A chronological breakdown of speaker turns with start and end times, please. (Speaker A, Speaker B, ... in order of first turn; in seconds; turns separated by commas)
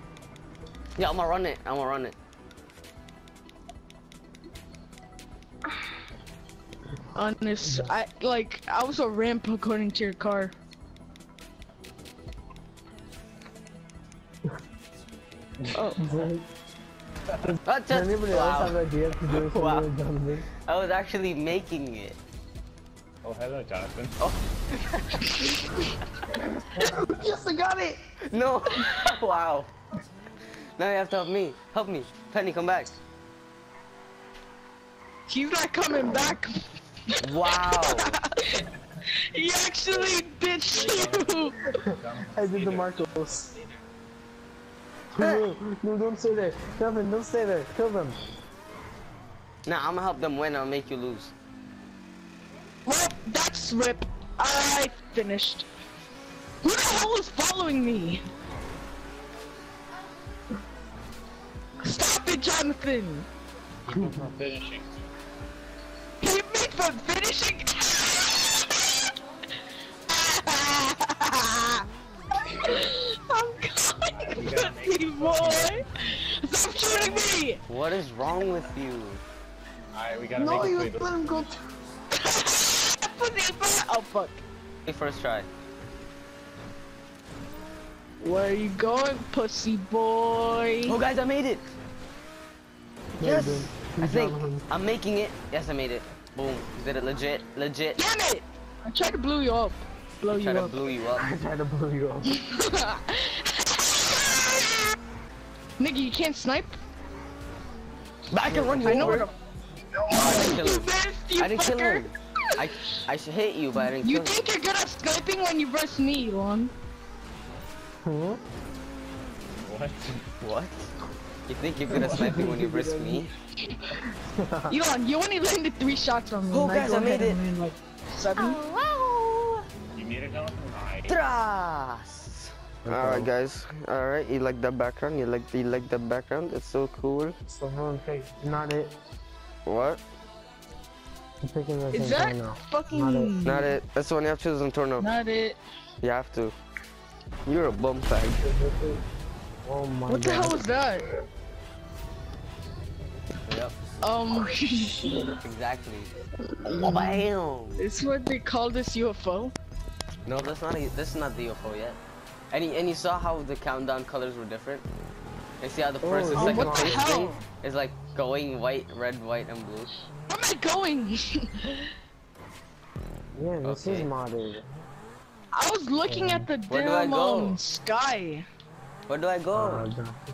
Speaker A: 1.0-2.1, Speaker B: 7.1-10.5, Speaker C: 7.6-7.9, Speaker C: 15.7-16.5, Speaker C: 17.4-20.4, Speaker A: 17.7-19.9, Speaker A: 20.6-22.2, Speaker D: 23.2-24.2, Speaker A: 24.2-25.4, Speaker B: 25.3-25.9, Speaker C: 26.6-28.0, Speaker A: 28.3-29.7, Speaker A: 30.8-32.9, Speaker B: 35.3-36.6, Speaker B: 37.1-41.6, Speaker A: 37.2-38.2, Speaker D: 40.7-42.9, Speaker C: 41.8-43.5, Speaker C: 45.1-48.2, Speaker A: 45.2-45.4, Speaker A: 49.6-51.3, Speaker B: 52.8-55.7, Speaker B: 56.6-58.2, Speaker B: 61.8-63.3, Speaker D: 63.9-64.9, Speaker C: 64.0-64.2, Speaker B: 66.2-69.1, Speaker B: 70.1-71.8, Speaker B: 72.5-77.6, Speaker D: 74.1-75.8, Speaker D: 76.8-77.3, Speaker A: 77.7-79.2, Speaker D: 79.9-81.3, Speaker C: 80.3-81.6, Speaker B: 82.1-84.4, Speaker A: 84.8-85.5, Speaker B: 88.2-91.0, Speaker A: 90.8-91.7, Speaker C: 93.2-94.6, Speaker A: 93.2-98.0, Speaker B: 97.9-100.8, Speaker A: 100.3-101.3, Speaker C: 101.1-102.3, Speaker B: 102.3-104.9, Speaker B: 105.8-106.8, Speaker A: 108.3-109.3, Speaker C: 108.5-109.3, Speaker B: 108.8-109.3, Speaker B: 110.0-112.1, Speaker A: 110.1-114.4, Speaker B: 114.0-116.7, Speaker C: 118.0-118.4, Speaker D: 119.6-120.2, Speaker A: 120.4-120.9, Speaker A: 121.5-123.3, Speaker D: 121.8-122.4, Speaker C: 121.9-123.3, Speaker C: 124.0-124.7, Speaker B: 124.7-128.6, Speaker A: 126.5-127.4, Speaker A: 128.3-129.6, Speaker D: 129.9-131.2, Speaker A: 131.1-137.3, Speaker C: 132.8-133.3, Speaker C: 137.5-138.9, Speaker A: 139.7-140.0, Speaker C: 141.4-143.3, Speaker B: 141.9-143.7, Speaker A: 143.4-145.1, Speaker B: 145.0-145.6, Speaker A: 146.0-146.6, Speaker A: 147.4-148.4, Speaker C: 148.4-149.0, Speaker C: 149.6-150.6, Speaker B: 150.1-151.1, Speaker A: 153.4-153.8, Speaker B: 154.0-155.1, Speaker C: 155.0-155.3, Speaker A: 155.3-156.1, Speaker C: 156.7-157.1, Speaker A: 156.8-157.8, Speaker B: 157.8-159.5, Speaker A: 160.2-162.0, Speaker A: 162.5-164.8, Speaker A: 165.6-169.9, Speaker C: 166.0-167.0, Speaker B: 166.3-167.4, Speaker B: 170.3-171.9, Speaker C: 173.3-174.7, Speaker A: 173.6-174.1, Speaker B: 175.5-178.4, Speaker C: 176.0-176.5, Speaker A: 176.7-177.6, Speaker A: 179.1-179.8, Speaker C: 179.5-180.2